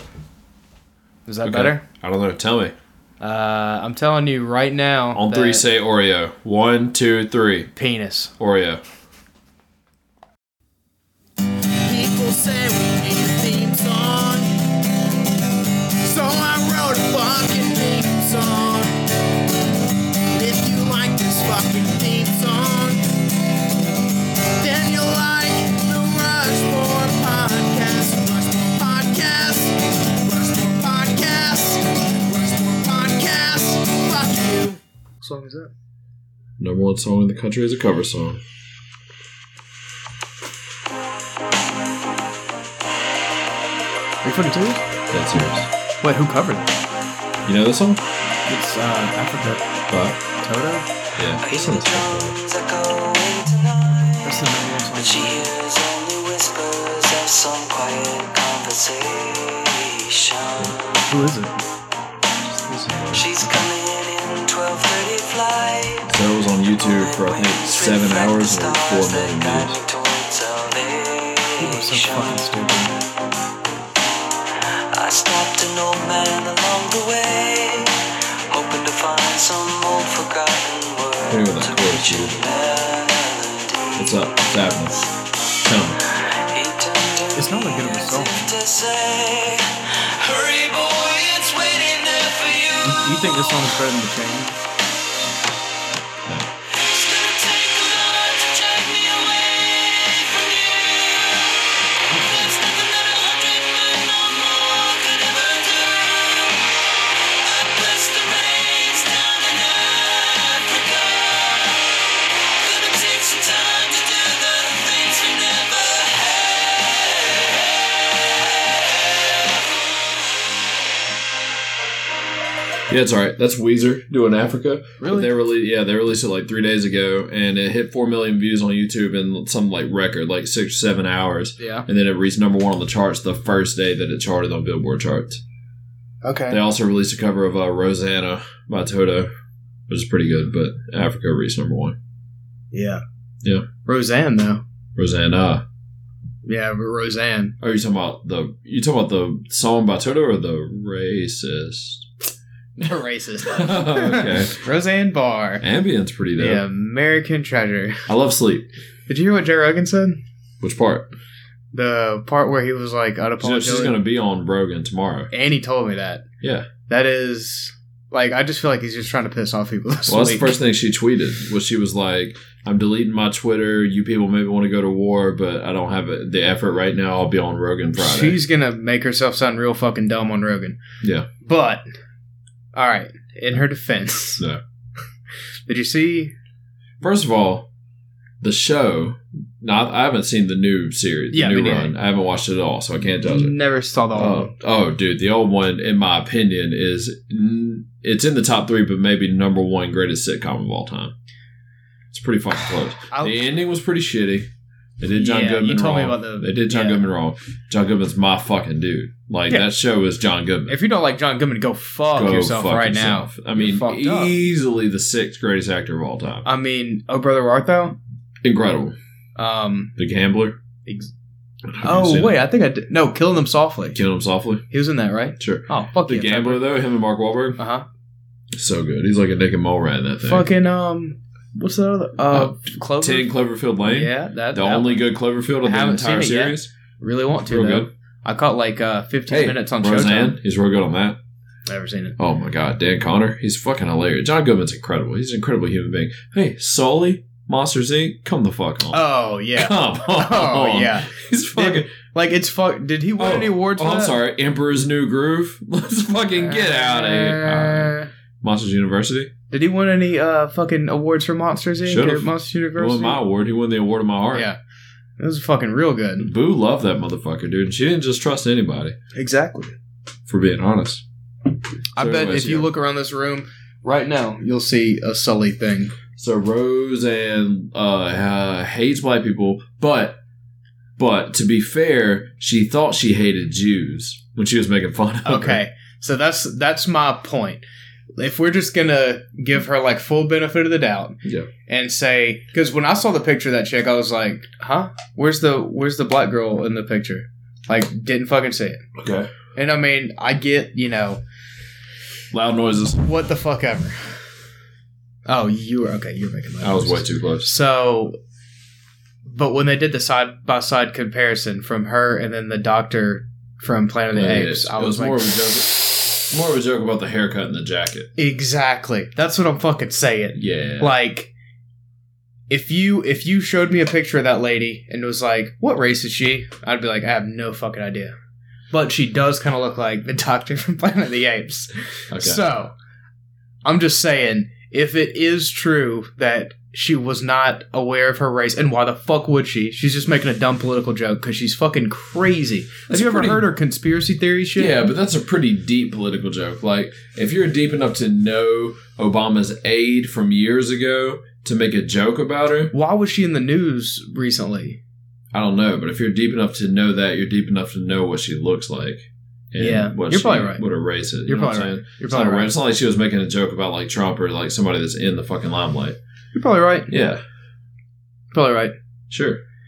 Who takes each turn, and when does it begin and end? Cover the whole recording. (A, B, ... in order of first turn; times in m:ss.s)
0:01.2-0:01.8 A
0:01.4-0:02.8 B
0:03.2-0:05.6 A
0:05.1-0:07.7 B
0:07.8-0:08.3 A
0:08.4-0:08.8 B
0:11.8-0:14.9 C
0:16.0-0:19.0 C
0:20.3-0:23.2 C
0:24.6-0:34.8 C
0:35.2-0:35.7 A
0:36.6-0:38.4 B
0:44.2-0:44.8 A
0:45.1-0:45.7 B
0:46.0-0:46.7 A
0:47.4-0:48.0 B
0:48.4-0:49.6 A
0:49.9-0:50.2 B
0:50.4-0:50.9 A
0:51.2-0:52.4 B
0:51.4-1:01.0 D
0:54.2-0:55.5 A
1:01.1-1:01.6 A
1:02.6-1:03.5 A
1:02.8-1:03.2 B
1:03.1-1:06.2 D
1:06.1-1:09.8 B
1:06.8-1:12.9 D
1:11.6-1:13.0 A
1:14.9-1:24.3 D
1:21.3-1:22.4 B
1:24.0-1:25.0 B
1:25.6-1:26.0 B
1:26.1-1:33.3 D
1:27.4-1:28.5 A
1:32.8-1:34.6 A
1:36.2-1:36.5 B
1:36.7-2:00.2 D
1:42.1-1:42.5 A
2:02.9-2:15.4 B
2:05.0-2:05.4 A
2:11.6-2:11.8 A
2:16.2-2:16.6 A
2:16.5-2:19.3 B
2:19.9-2:22.0 B
2:22.7-2:23.0 A
2:23.8-2:24.6 A
2:25.0-2:25.6 B
2:26.4-2:27.5 A
2:27.6-2:32.1 B
2:32.8-2:35.6 A
2:33.5-2:34.6 B
2:35.6-2:36.6 B
2:36.4-2:38.1 A
2:38.1-2:38.7 B
2:39.1-2:40.2 A
2:40.6-2:41.1 B
2:41.7-2:44.0 A
2:43.4-2:45.3 B
2:45.3-2:46.2 A
2:46.4-2:46.7 B
2:46.9-2:50.5 A
2:50.1-2:58.4 B
2:58.0-3:00.8 A
3:01.0-3:01.3 B
3:01.4-3:01.8 A
3:02.7-3:04.4 A
3:05.7-3:06.3 A
3:07.0-3:07.7 B
3:08.4-3:13.5 B
3:11.3-3:11.9 A
3:13.2-3:14.5 A
3:14.1-3:21.1 B
3:22.1-3:24.5 B
3:23.1-3:23.4 A
3:25.0-3:30.8 B
3:25.1-3:27.0 A
3:30.7-3:34.4 A
3:32.1-3:36.4 B
3:36.4-3:38.0 A
3:38.4-3:39.0 B
3:39.4-3:39.9 A
3:40.0-3:40.6 B
3:40.8-3:41.1 A
3:41.7-3:42.4 B
3:41.8-3:44.0 A
3:43.9-3:44.6 B
3:44.7-3:46.6 A
3:45.4-3:47.6 B
3:47.6-3:47.8 A
3:48.5-3:50.5 B
3:50.2-3:53.3 A
3:52.3-3:56.7 B
3:53.8-3:55.0 A
3:55.6-4:00.4 A
3:57.4-3:57.9 B
3:59.3-4:01.2 B
4:01.7-4:02.2 A
4:02.2-4:09.0 B
4:08.9-4:14.1 A
4:09.5-4:11.9 B
4:13.2-4:19.3 B
4:16.4-4:18.1 A
4:19.5-4:23.2 A
4:21.8-4:24.5 B
4:24.3-4:24.6 A
4:25.2-4:26.3 A
4:26.2-4:29.0 B
4:29.1-4:29.8 A
4:30.3-4:31.0 B
4:32.0-4:35.9 A
4:32.0-4:32.7 B
4:36.2-4:40.2 B
4:41.0-4:45.6 B
4:45.2-4:47.6 A
4:48.2-4:58.8 A
4:59.0-4:59.3 B
4:59.5-5:01.2 A
5:02.3-5:03.0 B
5:03.0-5:04.2 A
5:05.3-5:08.2 A
5:06.6-5:07.5 B
5:09.3-5:15.3 A
5:14.1-5:18.1 B
5:18.2-5:21.3 A
5:20.4-5:20.9 B
5:22.5-5:28.2 A
5:28.7-5:32.7 A
5:32.1-5:32.4 B
5:33.6-5:44.8 A
5:42.9-5:43.4 B
5:44.6-5:52.7 B
5:52.7-5:54.8 A
5:55.3-6:06.0 B
5:59.6-6:00.6 A
6:01.2-6:02.5 A
6:06.3-6:06.9 A
6:06.9-6:07.2 B
6:08.3-6:08.7 A
6:09.1-6:09.4 B